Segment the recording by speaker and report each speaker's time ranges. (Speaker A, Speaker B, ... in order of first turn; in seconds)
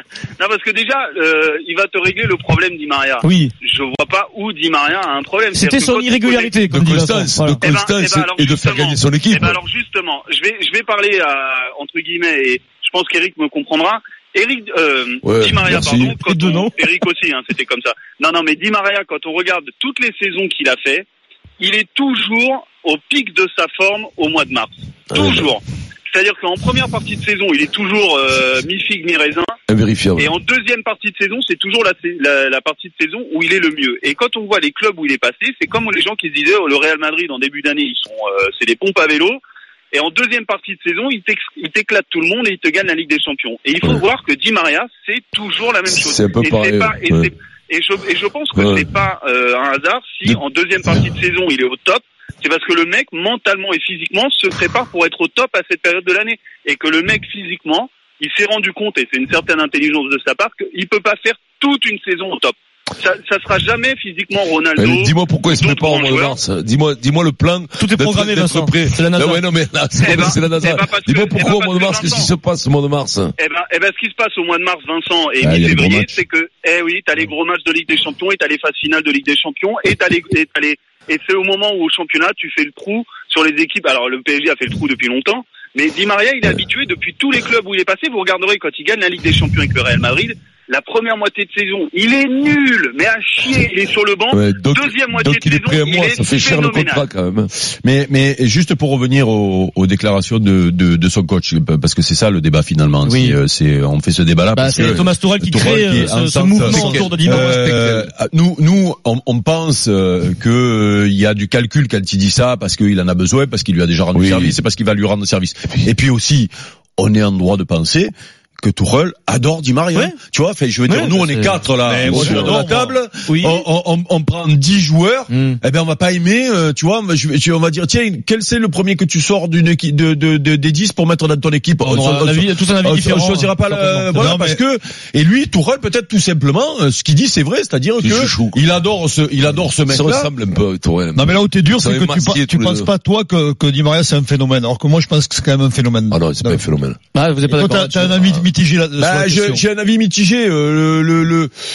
Speaker A: 0.4-6.6, 7.6-21.1, 21.6-29.5, 30.2-39.4, 39.9-66.4, 70.0-72.3, 73.4-97.1
Speaker B: 3.2-3.5, 5.5-7.6, 16.0-16.7, 67.8-69.4, 103.0-103.4, 104.5-108.1, 120.9-121.6, 123.3-123.7, 125.3-125.6, 131.8-134.3, 147.1-148.2
Speaker C: 6.7-9.6, 15.2-16.2, 25.1-25.6, 29.7-30.4, 45.9-47.3, 48.5-48.9, 64.8-73.3, 94.3-97.5, 104.8-105.0, 106.7-107.2, 114.1-114.6, 122.0-122.6, 138.0-138.6, 139.8-142.9, 146.1-147.0, 148.2-148.5
Speaker D: 75.4-76.2, 97.8-140.3, 149.0-151.5
Speaker E: 121.8-123.0, 134.2-134.6, 141.1-146.6, 147.4-149.6